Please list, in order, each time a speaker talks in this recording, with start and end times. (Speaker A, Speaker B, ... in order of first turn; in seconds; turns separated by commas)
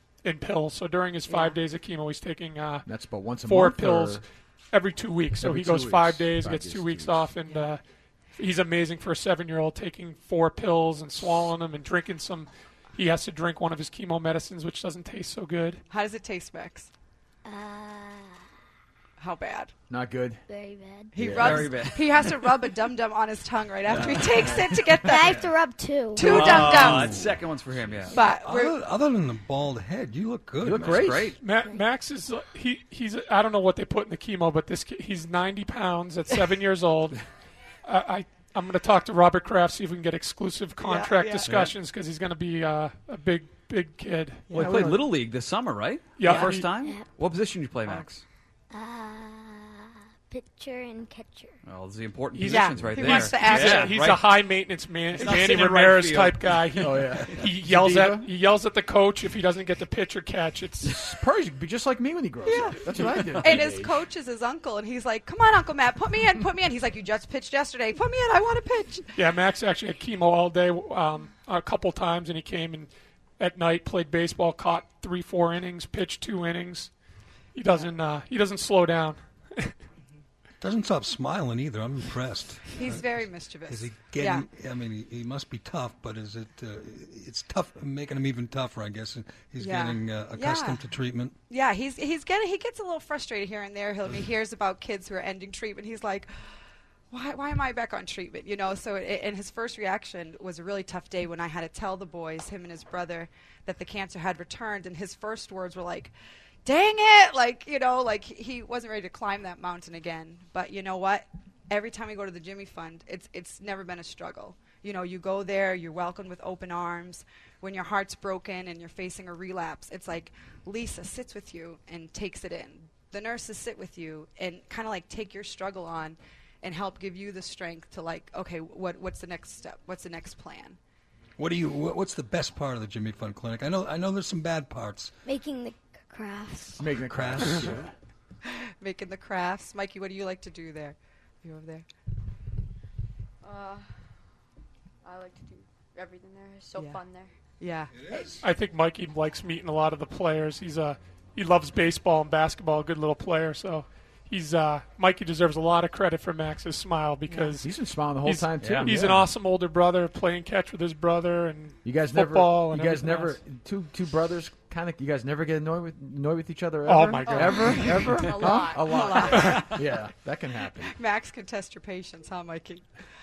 Speaker A: 0.2-2.9, Speaker B: 1.3-1.6, Speaker C: 2.8-4.2, Speaker A: 3.4-7.8, Speaker C: 5.4-7.3, Speaker B: 7.4-7.7, Speaker A: 8.3-15.8, Speaker B: 15.9-16.9, Speaker D: 17.4-18.4, Speaker B: 19.2-19.7, Speaker C: 19.9-20.4, Speaker D: 20.5-21.2, Speaker B: 21.1-25.4, Speaker C: 21.1-21.8, Speaker E: 21.4-22.3, Speaker E: 23.9-24.5, Speaker D: 25.0-26.3, Speaker B: 26.1-27.2, Speaker F: 26.2-27.4, Speaker E: 26.3-28.1, Speaker F: 28.0-31.2, Speaker B: 28.1-28.8, Speaker C: 30.6-31.3, Speaker E: 31.0-31.4, Speaker A: 31.4-37.2, Speaker A: 37.8-44.4, Speaker B: 40.8-41.7, Speaker F: 41.4-41.7, Speaker E: 44.5-48.2, Speaker C: 44.5-45.1, Speaker A: 46.2-46.7, Speaker B: 46.2-46.5, Speaker D: 46.8-47.0, Speaker D: 48.7-51.5, Speaker E: 51.6-54.4, Speaker A: 52.4-60.9, Speaker B: 52.5-54.1, Speaker E: 55.1-57.4, Speaker C: 56.8-58.3, Speaker C: 60.8-64.0, Speaker B: 62.4-69.2, Speaker A: 69.1-76.9, Speaker A: 77.5-79.7, Speaker F: 80.6-83.0, Speaker B: 82.7-84.5, Speaker F: 83.7-91.3, Speaker B: 89.6-90.8, Speaker B: 91.5-96.3, Speaker B: 97.1-106.1, Speaker B: 106.6-130.8, Speaker F: 131.4-135.1, Speaker D: 135.2-136.9, Speaker C: 136.8-137.9, Speaker F: 136.9-137.9, Speaker B: 138.4-141.9, Speaker G: 143.4-143.9, Speaker G: 145.0-147.3, Speaker B: 146.8-147.0, Speaker B: 147.6-148.4, Speaker F: 148.0-148.4, Speaker A: 148.4-163.4, Speaker B: 157.3-157.6, Speaker C: 157.6-159.3, Speaker C: 161.8-170.9, Speaker A: 166.8-168.1, Speaker B: 167.2-169.9, Speaker G: 168.4-169.3, Speaker B: 170.7-173.0